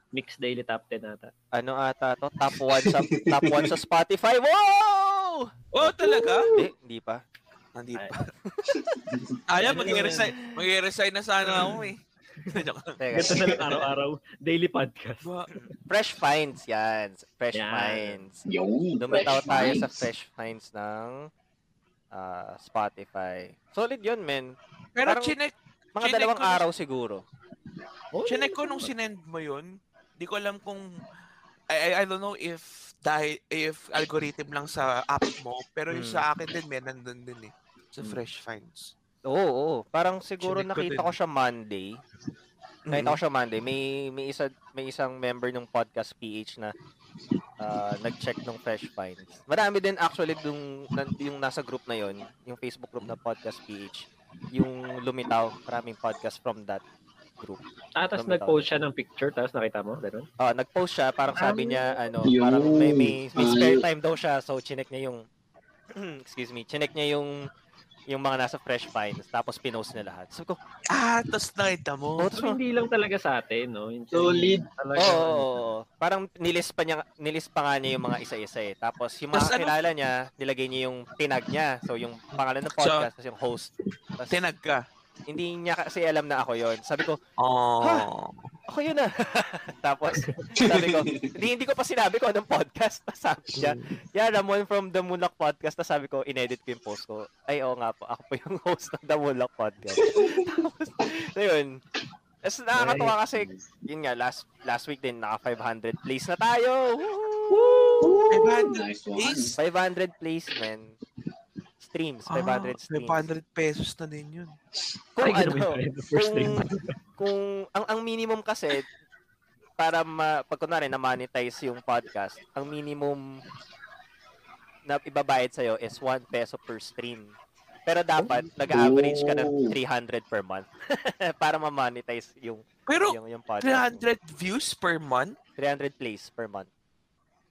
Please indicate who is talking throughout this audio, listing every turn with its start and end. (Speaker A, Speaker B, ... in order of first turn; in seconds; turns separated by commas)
Speaker A: 0.1-1.3, Speaker B: 1.5-6.0, Speaker C: 2.7-3.8, Speaker D: 5.7-6.5, Speaker A: 6.0-6.6, Speaker B: 6.5-7.2, Speaker D: 7.8-8.3, Speaker B: 8.4-8.8, Speaker C: 8.7-9.4, Speaker D: 9.5-13.0, Speaker A: 9.6-10.3, Speaker B: 9.7-10.5, Speaker B: 13.0-13.6, Speaker A: 13.1-15.2, Speaker C: 13.2-13.9, Speaker D: 15.2-15.5, Speaker B: 15.5-18.4, Speaker A: 17.5-18.2, Speaker C: 18.5-20.1, Speaker B: 19.0-21.3, Speaker B: 22.1-24.6, Speaker D: 25.0-26.6, Speaker B: 25.1-25.4, Speaker B: 25.9-27.2, Speaker A: 28.1-28.9, Speaker D: 28.3-30.9, Speaker D: 31.7-38.9, Speaker B: 35.9-36.2, Speaker B: 39.3-42.0, Speaker D: 40.4-41.1, Speaker D: 42.9-43.2, Speaker B: 42.9-46.7, Speaker B: 47.6-56.8, Speaker A: 58.0-60.3, Speaker B: 58.1-58.7, Speaker B: 60.4-65.2, Speaker A: 61.3-62.0, Speaker C: 62.3-63.8, Speaker B: 66.0-67.5, Speaker B: 68.1-70.6, Speaker D: 70.9-72.3, Speaker B: 72.2-72.6, Speaker A: 72.3-75.7, Speaker C: 74.1-74.7, Speaker B: 75.0-84.4, Speaker D: 79.3-79.7, Speaker D: 82.3-83.1, Speaker D: 84.3-84.8, Speaker B: 85.3-87.2, Speaker D: 87.4-88.5, Speaker B: 87.8-88.1, Speaker B: 88.7-101.8, Speaker C: 90.6-91.3, Speaker D: 93.5-93.9, Speaker C: 100.0-100.5, Speaker B: 102.4-108.2, Speaker C: 102.8-103.6, Speaker D: 107.5-109.6, Speaker C: 108.0-109.5, Speaker B: 109.6-111.0, Speaker B: 111.8-113.3, Speaker D: 112.3-114.6, Speaker B: 115.2-116.6, Speaker A: 115.2-116.9, Speaker B: 117.2-118.9, Speaker B: 119.8-123.2, Speaker B: 124.8-127.4, Speaker B: 127.9-134.1, Speaker C: 128.7-129.8, Speaker D: 132.9-135.4, Speaker B: 135.6-136.7